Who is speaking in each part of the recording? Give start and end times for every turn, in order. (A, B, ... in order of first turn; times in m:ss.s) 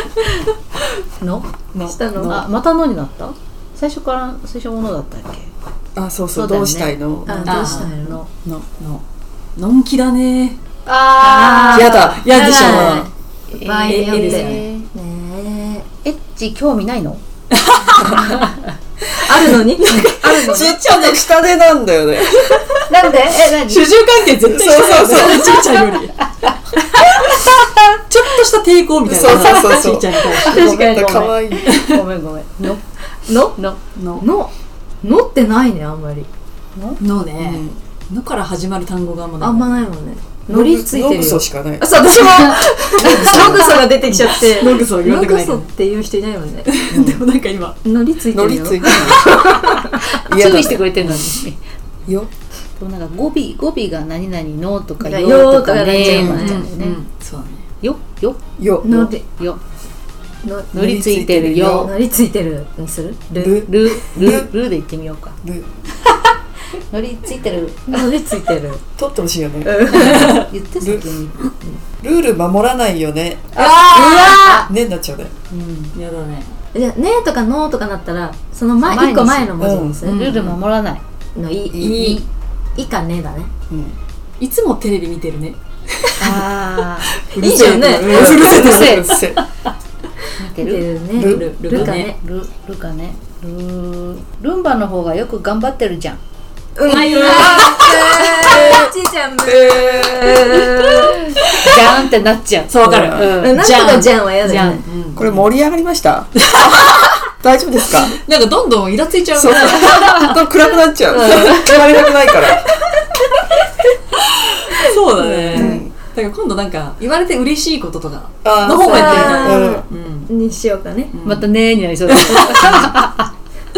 0:01.2-0:01.5 A
0:01.9-0:02.4 B
0:02.3-0:05.5 A
0:06.0-0:07.5 C
0:06.3-0:08.3 A
0:07.3-0:08.2 B
0:07.5-0:08.0 D
0:08.5-0:09.0 D
0:09.6-0:10.6 D
0:10.9-0:14.9 A
0:11.2-0:15.9 B
0:11.7-0:12.3 C
0:11.7-0:13.1 D
0:13.9-0:14.6 D
0:16.0-0:17.2 A
0:17.5-0:18.4 D
0:18.0-0:18.7 A
0:19.0-0:20.8 B
0:19.8-0:21.1 D
0:20.0-0:20.5 A
0:20.3-0:22.6 C
0:22.4-0:26.2 D
0:22.9-0:23.8 A
0:24.5-0:25.5 C
0:26.2-0:26.5 A
0:27.0-0:30.7 D
0:29.0-0:31.8 C
0:30.4-0:31.3 B
0:31.5-0:32.8 A
0:31.6-0:32.0 D
0:33.2-0:33.6 B
0:33.5-0:33.8 A
0:34.0-0:34.2 D
0:34.2-0:36.3 B
0:37.0-0:39.9 D
0:37.4-0:37.8 C
0:39.4-0:46.7 B
0:40.5-0:43.9 C
0:43.1-0:43.6 A
0:44.1-0:45.7 D
0:46.7-0:47.8 D
0:46.9-0:47.3 C
0:47.8-0:50.0 B
0:48.3-0:49.3 C
0:48.9-0:49.4 A
0:50.0-0:51.6 A
0:50.3-0:50.9 C
0:51.0-0:51.4 D
0:52.8-0:57.0 A
0:55.0-0:56.7 B
0:56.0-0:57.7 D
0:57.8-0:59.6 A
0:58.6-0:59.1 C
0:58.8-0:59.2 B
1:00.4-1:00.9 B
1:00.7-1:01.9 A
1:00.7-1:01.9 C
1:01.7-1:03.6 B
1:03.4-1:04.5 C
1:03.6-1:05.4 A
1:05.4-1:05.7 C
1:06.9-1:08.1 A
1:07.9-1:08.8 B
1:09.0-1:11.2 C
1:09.6-1:10.5 B
1:10.1-1:10.5 D
1:10.1-1:11.5 A
1:12.0-1:15.3 C
1:13.6-1:14.7 A
1:13.6-1:14.6 D
1:15.5-1:15.9 A
1:15.9-1:16.5 D
1:16.7-1:20.2 B
1:18.8-1:19.5 A
1:19.6-1:20.0 C
1:20.0-1:20.6 D
1:20.0-1:21.0 A
1:21.4-1:22.0 B
1:21.7-1:22.2 C
1:21.8-1:22.2 D
1:21.9-1:22.3 A
1:22.8-1:23.5 B
1:23.7-1:24.0 C
1:24.4-1:26.4 D
1:26.2-1:27.2 A
1:27.3-1:29.4 D
1:27.4-1:28.6 B
1:27.4-1:29.4 C
1:28.2-1:29.2 A
1:30.4-1:30.9 A
1:30.6-1:32.2 B
1:31.2-1:31.5 C
1:31.2-1:32.1 D
1:31.7-1:36.2 A
1:36.8-1:41.2 B
1:36.9-1:38.7 D
1:37.2-1:37.6 A
1:39.4-1:40.5 C
1:41.4-1:43.6 A
1:41.5-1:41.9 D
1:42.7-1:45.5 D
1:42.9-1:43.3 C
1:43.3-1:44.8 B
1:44.4-1:44.8 A
1:45.2-1:46.4 C
1:46.5-1:47.2 D
1:47.4-1:48.2 C
1:48.0-1:50.4 D
1:49.3-1:52.8 C
1:51.1-1:52.1 A
1:51.2-1:51.6 D
1:54.1-2:00.3 D
1:55.2-1:55.8 A
1:55.3-1:55.9 C
1:55.6-1:55.8 B
1:58.4-1:59.8 C
1:58.8-2:01.1 B
1:58.9-1:59.5 A
2:01.1-2:03.0 D
2:01.2-2:03.3 A